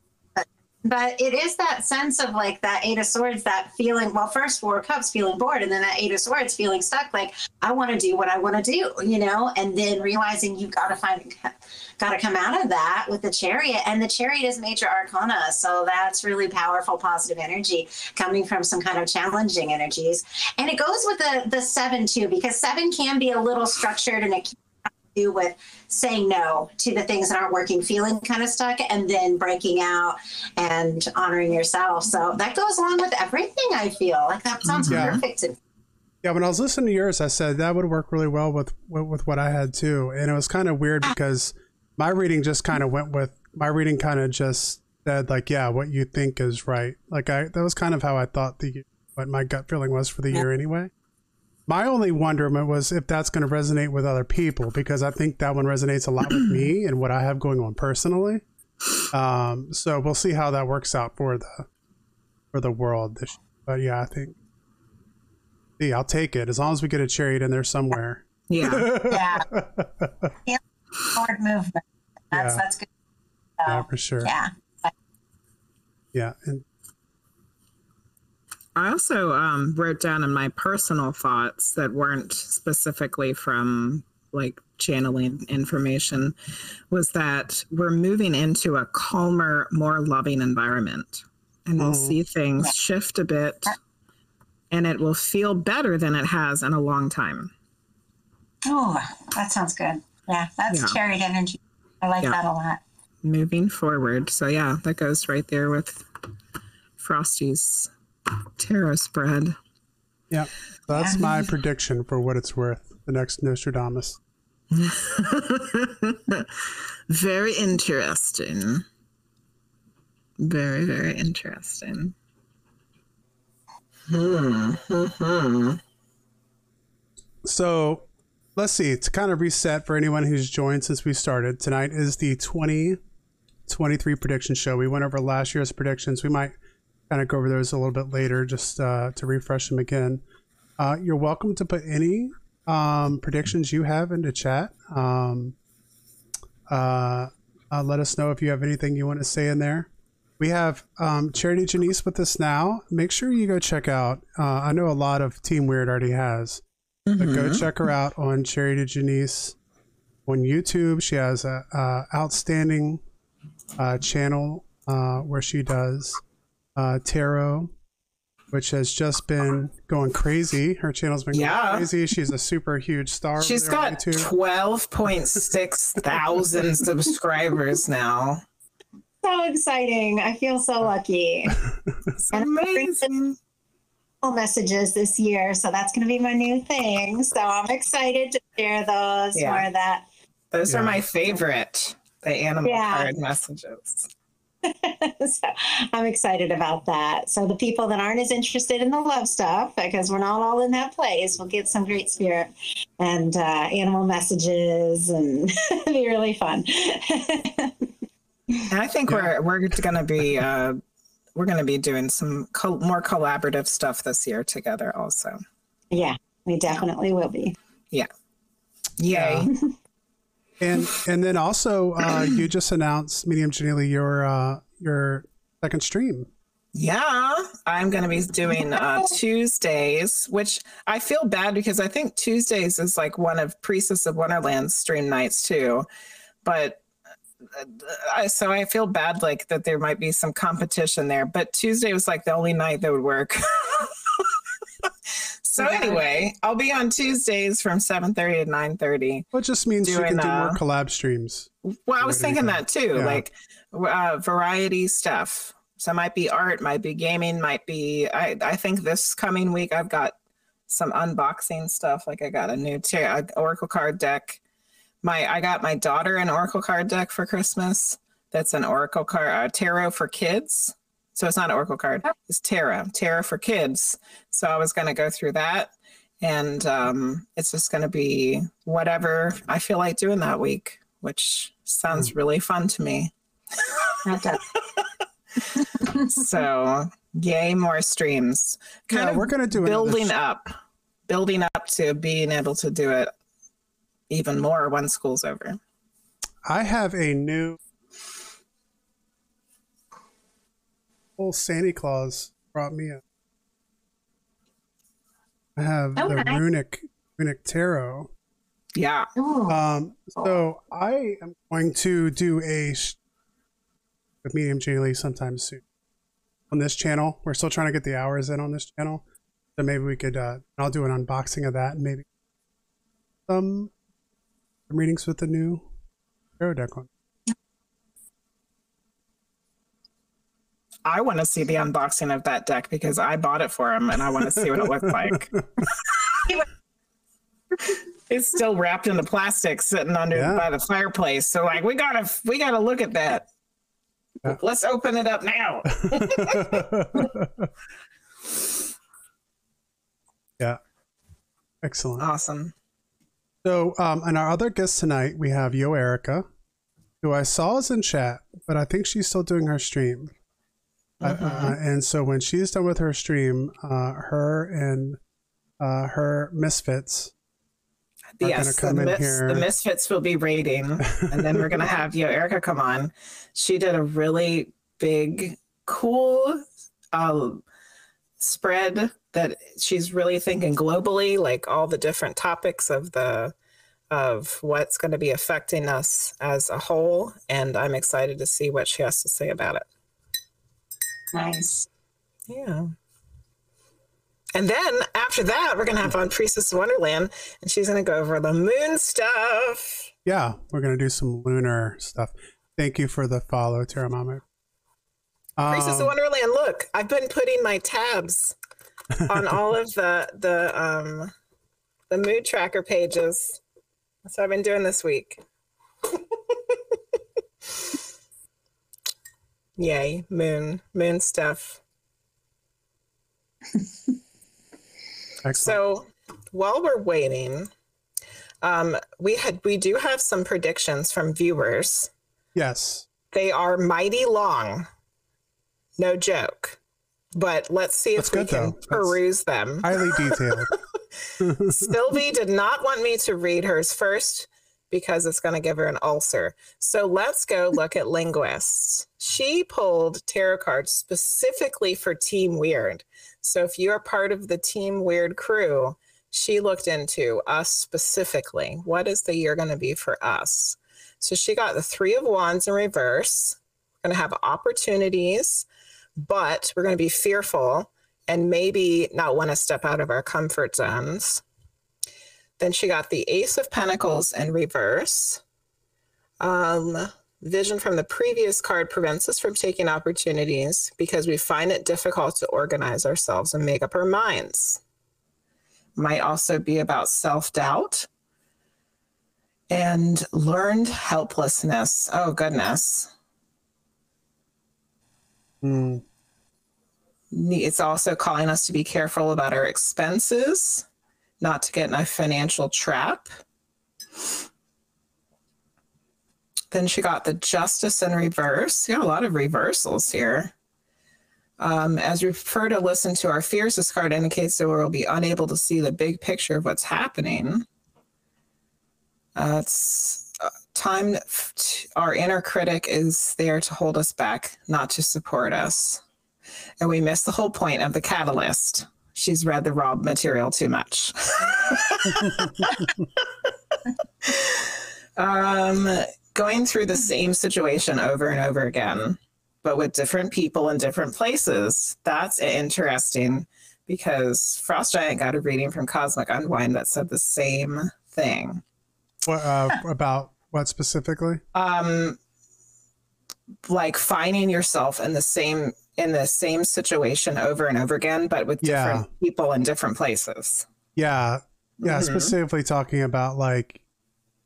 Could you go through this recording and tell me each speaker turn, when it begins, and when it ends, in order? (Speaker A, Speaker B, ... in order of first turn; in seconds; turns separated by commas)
Speaker A: 0.3-35.6, Speaker B: 34.7-35.2, Speaker C: 34.9-35.2, Speaker C: 36.2-50.9, Speaker C: 51.7-58.4, Speaker C: 59.1-61.7, Speaker C: 62.5-64.3, Speaker C: 65.8-70.3, Speaker B: 68.5-68.9, Speaker A: 69.1-69.5, Speaker A: 70.5-72.9, Speaker C: 72.3-72.6, Speaker A: 73.6-74.9, Speaker C: 73.7-74.3, Speaker C: 76.1-76.6, Speaker B: 78.8-86.3, Speaker B: 86.9-93.8, Speaker C: 91.8-92.2, Speaker B: 94.7-97.5, Speaker A: 98.7-102.8, Speaker B: 100.7-101.0, Speaker B: 103.2-106.0, Speaker B: 107.0-107.9, Speaker B: 108.6-109.5, Speaker C: 110.3-114.2, Speaker A: 110.9-111.4, Speaker B: 114.7-116.5, Speaker B: 117.1-118.8, Speaker B: 120.4-122.1, Speaker B: 124.1-125.8, Speaker C: 127.4-133.0, Speaker C: 133.7-136.5, Speaker C: 137.1-140.2, Speaker C: 140.8-145.6, Speaker C: 146.7-156.6, Speaker B: 157.1-157.7, Speaker C: 157.2-159.6, Speaker C: 160.2-163.0, Speaker C: 163.8-166.2, Speaker C: 166.8-167.7, Speaker C: 168.5-174.3, Speaker B: 171.3-171.9, Speaker B: 173.4-178.4, Speaker A: 179.2-181.6, Speaker B: 182.2-183.4, Speaker A: 182.3-183.1, Speaker A: 184.2-190.1, Speaker B: 189.3-189.7, Speaker B: 190.5-194.1, Speaker C: 190.7-191.0, Speaker A: 192.6-193.1, Speaker A: 194.6-207.9, Speaker B: 208.7-210.8, Speaker C: 209.1-209.3, Speaker B: 211.3-215.4, Speaker A: 215.9-217.6, Speaker B: 219.0-219.5, Speaker C: 219.1-219.5, Speaker C: 220.6-226.3, Speaker B: 226.7-235.9, Speaker B: 236.4-236.8, Speaker B: 237.5-244.2, Speaker B: 245.4-249.3, Speaker A: 245.6-246.0, Speaker C: 249.3-253.2, Speaker B: 249.8-250.6, Speaker B: 251.7-260.1, Speaker B: 260.7-264.4, Speaker B: 265.0-283.7, Speaker A: 284.0-284.4, Speaker B: 285.9-290.5, Speaker C: 288.9-290.1, Speaker B: 291.1-293.1, Speaker B: 294.1-295.6, Speaker C: 296.4-297.6, Speaker C: 301.2-303.0, Speaker C: 305.6-308.1, Speaker A: 305.9-306.4, Speaker B: 308.7-309.1, Speaker A: 309.1-309.6, Speaker C: 309.5-313.0, Speaker C: 314.2-315.6, Speaker C: 316.5-319.0, Speaker C: 319.6-322.1, Speaker C: 323.3-323.7, Speaker C: 324.7-325.7, Speaker C: 326.4-326.9, Speaker B: 330.8-336.3, Speaker B: 338.1-343.3, Speaker C: 340.1-340.4, Speaker B: 344.2-346.6, Speaker C: 345.8-347.5, Speaker C: 351.6-352.0, Speaker B: 352.0-352.5, Speaker C: 353.4-356.2, Speaker C: 357.0-360.1, Speaker B: 361.0-361.6, Speaker C: 361.0-365.0, Speaker C: 365.6-367.1, Speaker B: 368.2-377.4, Speaker C: 368.2-369.5, Speaker B: 378.2-383.3, Speaker B: 383.9-389.6, Speaker A: 391.1-391.7, Speaker B: 392.3-392.7, Speaker B: 394.3-399.9, Speaker C: 400.1-404.2, Speaker C: 405.4-405.9, Speaker B: 405.4-408.4, Speaker B: 409.1-411.1, Speaker B: 411.9-413.4, Speaker B: 414.0-415.2, Speaker B: 416.3-416.6, Speaker B: 419.6-421.6, Speaker C: 425.2-425.6, Speaker B: 425.4-427.5, Speaker B: 428.4-431.9, Speaker C: 432.3-432.9, Speaker B: 433.1-434.7, Speaker B: 435.8-436.6, Speaker B: 437.1-440.2, Speaker C: 438.0-438.9, Speaker C: 439.6-440.5, Speaker C: 441.2-441.7, Speaker B: 441.5-465.4, Speaker B: 466.0-471.2, Speaker B: 472.4-475.2, Speaker B: 476.2-484.6, Speaker B: 485.8-487.9, Speaker B: 489.5-492.9, Speaker C: 495.4-495.8, Speaker B: 497.1-500.6, Speaker B: 501.2-503.1, Speaker B: 506.5-510.3, Speaker B: 511.4-517.5, Speaker B: 519.1-525.8, Speaker B: 526.6-532.7, Speaker B: 534.0-548.4, Speaker C: 549.1-551.2, Speaker B: 551.3-552.0, Speaker B: 553.5-560.5, Speaker C: 558.4-558.9, Speaker C: 560.8-563.6, Speaker B: 561.6-562.1